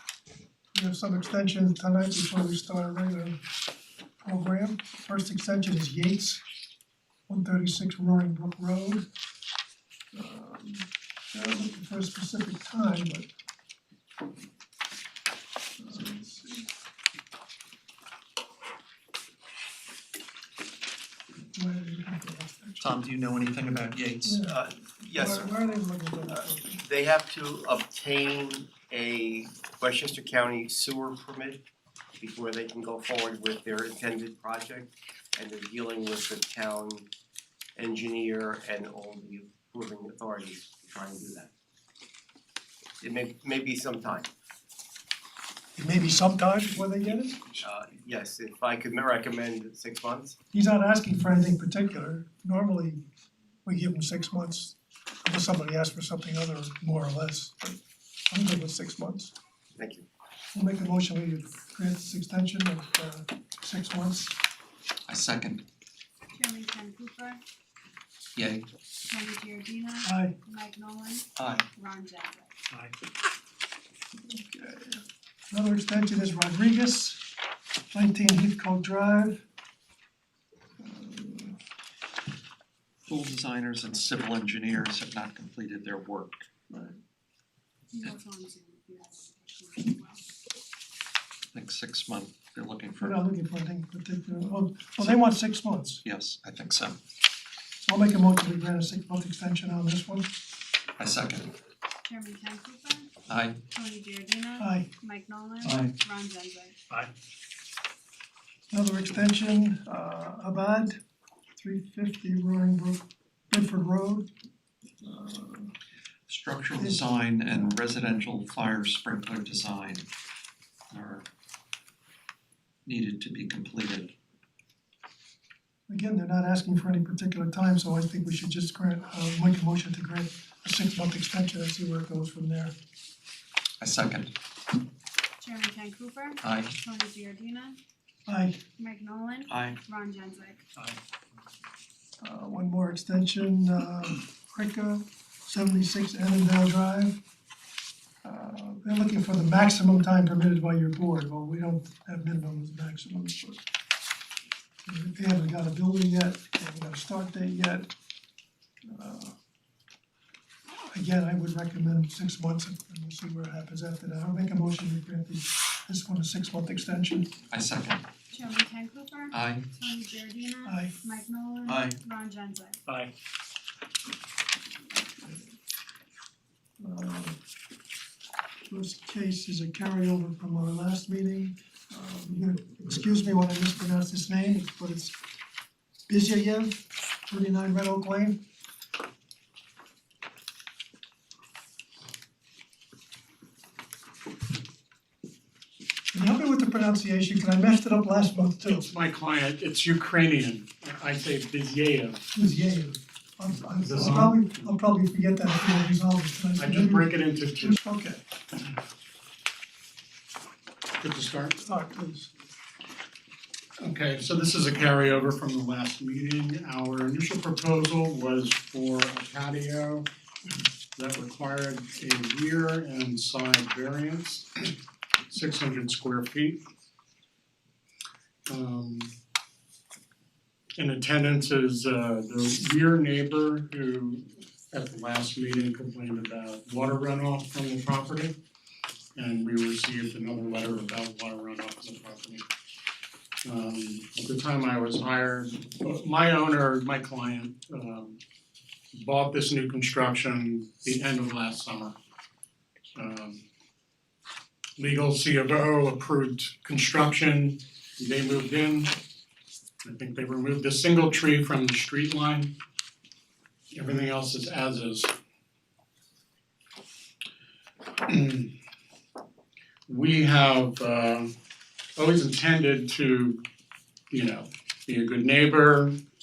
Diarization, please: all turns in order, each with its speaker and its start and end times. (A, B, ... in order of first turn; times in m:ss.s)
0:00.7-0:03.4 A
0:04.2-0:06.4 A
0:07.3-0:09.0 A
0:10.1-0:13.3 A
0:15.8-0:16.7 A
0:21.5-0:22.9 A
0:22.8-0:24.4 B
0:24.2-0:24.6 A
0:24.4-0:25.6 C
0:25.1-0:26.8 A
0:26.3-0:31.6 C
0:32.2-0:37.0 C
0:37.8-0:41.5 C
0:43.0-0:44.3 C
0:45.8-0:47.6 A
0:47.6-0:50.3 C
0:50.5-0:53.0 A
0:53.6-0:57.8 A
0:58.3-0:59.3 A
0:59.8-1:00.0 C
1:00.5-1:04.4 A
1:05.1-1:05.6 B
1:06.3-1:07.4 D
1:08.4-1:08.6 B
1:09.0-1:12.6 D
1:10.0-1:10.3 A
1:11.4-1:11.6 B
1:14.3-1:17.2 A
1:17.9-1:19.4 A
1:20.8-1:21.6 A
1:23.0-1:26.4 B
1:26.7-1:27.0 A
1:27.9-1:30.2 D
1:31.5-1:33.2 B
1:33.0-1:36.0 A
1:36.0-1:37.0 B
1:37.8-1:40.3 A
1:41.0-1:41.5 B
1:42.0-1:43.1 D
1:43.3-1:43.6 B
1:43.7-1:46.8 D
1:44.6-1:44.9 A
1:45.6-1:45.9 B
1:48.7-1:51.0 A
1:51.6-1:54.3 A
1:55.0-1:55.7 A
1:56.3-2:00.0 B
1:56.8-1:57.8 A
2:00.9-2:01.2 B
2:02.8-2:04.1 B
2:05.9-2:12.7 A
2:13.8-2:14.3 B
2:15.4-2:17.8 D
2:16.4-2:16.7 B
2:18.3-2:18.6 A
2:18.8-2:20.6 D
2:19.5-2:19.8 B
2:22.2-2:27.2 A
2:28.2-2:33.6 A
2:34.9-2:37.9 A
2:38.9-2:39.3 A
2:40.9-2:47.3 A
2:47.5-2:48.0 B
2:48.3-2:52.8 D
2:49.3-2:49.6 B
2:50.6-2:50.9 A
2:51.7-2:51.9 B
2:56.8-2:57.4 A
2:58.7-3:05.2 A
3:06.1-3:08.4 A
3:16.1-3:18.9 A
3:18.7-3:22.2 E
3:22.3-3:28.2 A
3:23.8-3:24.5 E
3:26.6-3:27.8 E
3:31.0-3:31.6 E
3:31.6-3:32.3 A
3:33.8-3:40.0 E
3:41.0-3:44.5 E
3:45.3-3:46.6 E
3:48.5-3:49.1 E
3:50.8-3:58.3 E
3:59.1-4:02.4 E
4:03.4-4:08.2 E
4:08.9-4:11.9 E
4:12.9-4:13.4 E
4:14.8-4:18.9 E
4:19.8-4:22.5 E
4:23.7-4:25.1 E
4:28.0-4:28.5 E
4:29.9-4:31.3 E
4:32.0-4:33.4 E
4:34.1-4:36.0 E